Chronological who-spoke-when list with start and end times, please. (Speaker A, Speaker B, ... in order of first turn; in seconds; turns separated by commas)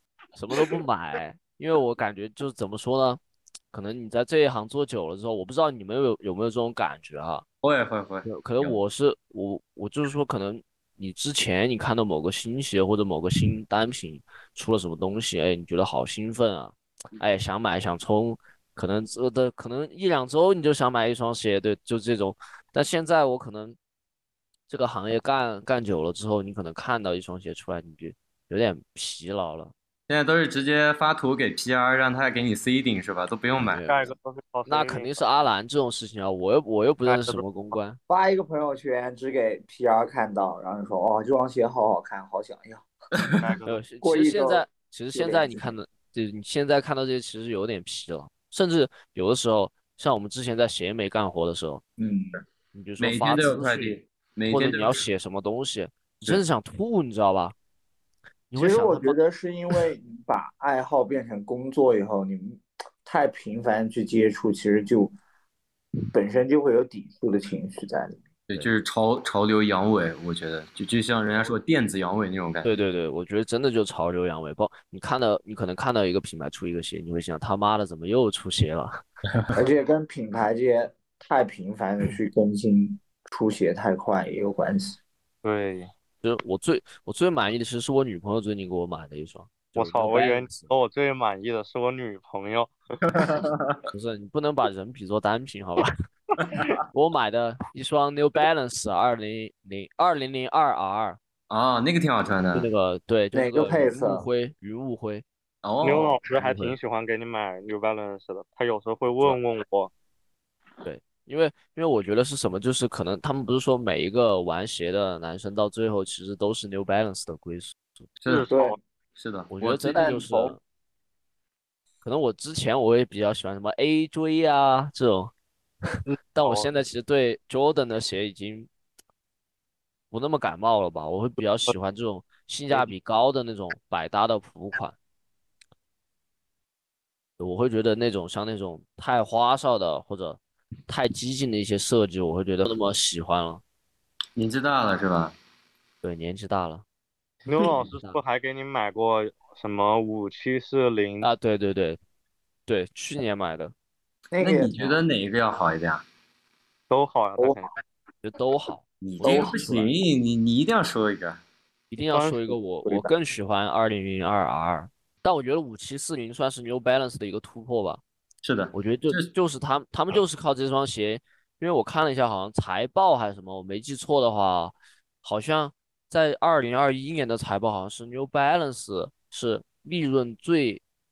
Speaker A: 0.3-3.2, Speaker A: 3.7-7.4, Speaker B: 7.6-8.8, Speaker A: 8.2-23.8, Speaker A: 24.7-29.7, Speaker B: 30.1-33.9, Speaker A: 33.6-34.1, Speaker C: 33.8-35.3, Speaker A: 34.6-38.0, Speaker C: 37.0-37.4, Speaker D: 38.1-42.8, Speaker C: 43.4-43.8, Speaker A: 43.6-51.8, Speaker D: 44.0-45.7, Speaker D: 52.0-52.4, Speaker A: 52.7-54.0, Speaker B: 53.0-55.0, Speaker A: 54.5-57.5, Speaker A: 58.5-59.2, Speaker D: 58.5-65.1, Speaker D: 66.1-68.2, Speaker B: 68.5-72.7, Speaker A: 72.6-79.0, Speaker D: 79.5-85.0, Speaker C: 85.4-85.9, Speaker A: 86.2-90.7, Speaker C: 89.8-93.4, Speaker B: 93.1-93.8, Speaker A: 93.9-95.9, Speaker B: 96.4-96.7, Speaker A: 96.9-101.2, Speaker B: 101.5-102.7, Speaker A: 102.5-105.2, Speaker D: 103.3-104.2, Speaker B: 105.6-106.2, Speaker C: 105.8-109.9, Speaker A: 106.4-106.7, Speaker A: 110.8-118.1, Speaker B: 118.2-118.5, Speaker C: 118.3-118.8, Speaker D: 118.5-118.8, Speaker B: 119.2-120.1, Speaker A: 119.5-120.6, Speaker D: 119.9-120.6, Speaker A: 122.0-125.3, Speaker A: 125.9-128.7, Speaker C: 126.1-126.7, Speaker A: 130.1-134.9, Speaker A: 137.4-143.6, Speaker B: 144.3-145.3, Speaker A: 146.0-146.8, Speaker C: 147.5-151.3, Speaker A: 147.8-148.2, Speaker A: 151.2-152.0, Speaker A: 152.7-153.7, Speaker D: 154.3-155.0, Speaker B: 154.4-156.0, Speaker C: 156.9-157.7, Speaker A: 158.2-159.9, Speaker B: 159.0-161.4, Speaker C: 159.2-159.5, Speaker A: 161.9-168.0, Speaker C: 162.1-162.5, Speaker D: 162.8-163.1, Speaker B: 168.4-169.3, Speaker A: 168.7-180.8